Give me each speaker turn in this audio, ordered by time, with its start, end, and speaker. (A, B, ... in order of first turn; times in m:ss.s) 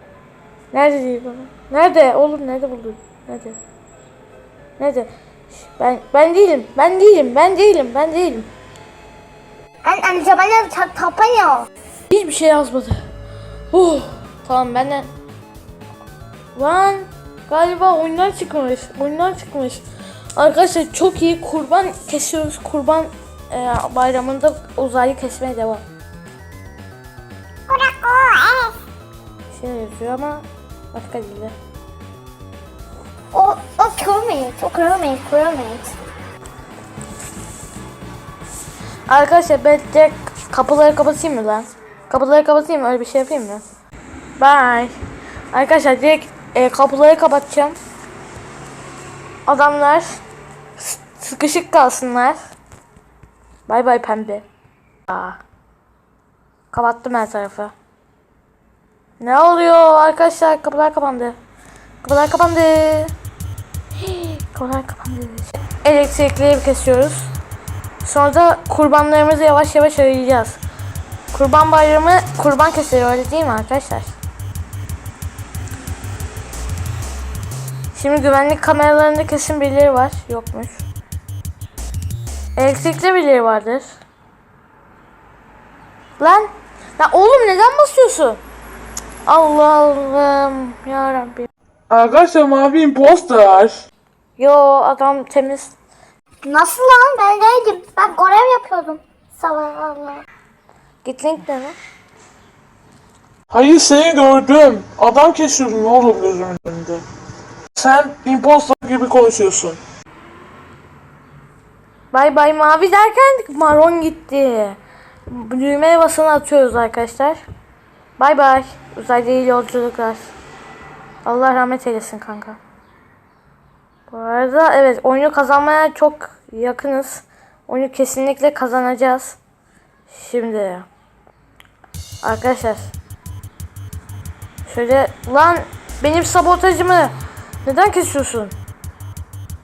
0:00.7-0:03.6 A
0:04.8-0:08.5 A
0:09.8-0:11.7 B
0:12.1-0:13.0 A
0:13.7-0:15.1 A
0:16.5-0:19.8 A
0:20.3-0:25.8 A
0:27.7-0:28.7 B
0:29.5-0:31.5 A
0:33.3-0:36.0 B
0:39.1-0:43.6 A
0:44.4-0:44.9 A
0:45.5-0:47.8 A
0:49.4-0:50.2 A
0:50.8-0:52.4 A
0:53.7-0:54.4 A
0:55.1-0:55.4 A
0:56.7-0:57.7 A
0:59.2-1:01.4 A
1:02.0-1:03.1 A
1:04.0-1:07.3 A
1:08.0-1:10.6 A
1:11.3-1:14.2 A
1:17.9-1:20.8 A
1:22.6-1:24.0 A
1:26.2-1:28.4 A
1:29.2-1:31.5 A
1:31.9-1:33.8 C
1:34.4-1:35.7 A
1:36.4-1:40.2 B
1:41.0-1:41.7 A
1:43.5-1:47.0 C
1:47.8-1:49.8 C
1:52.1-1:54.8 A
1:55.3-1:57.4 A
1:58.2-2:00.3 A
2:01.2-2:02.6 A
2:04.1-2:09.4 A
2:10.1-2:10.8 A
2:12.2-2:12.9 A
2:14.6-2:17.1 A
2:17.6-2:18.5 A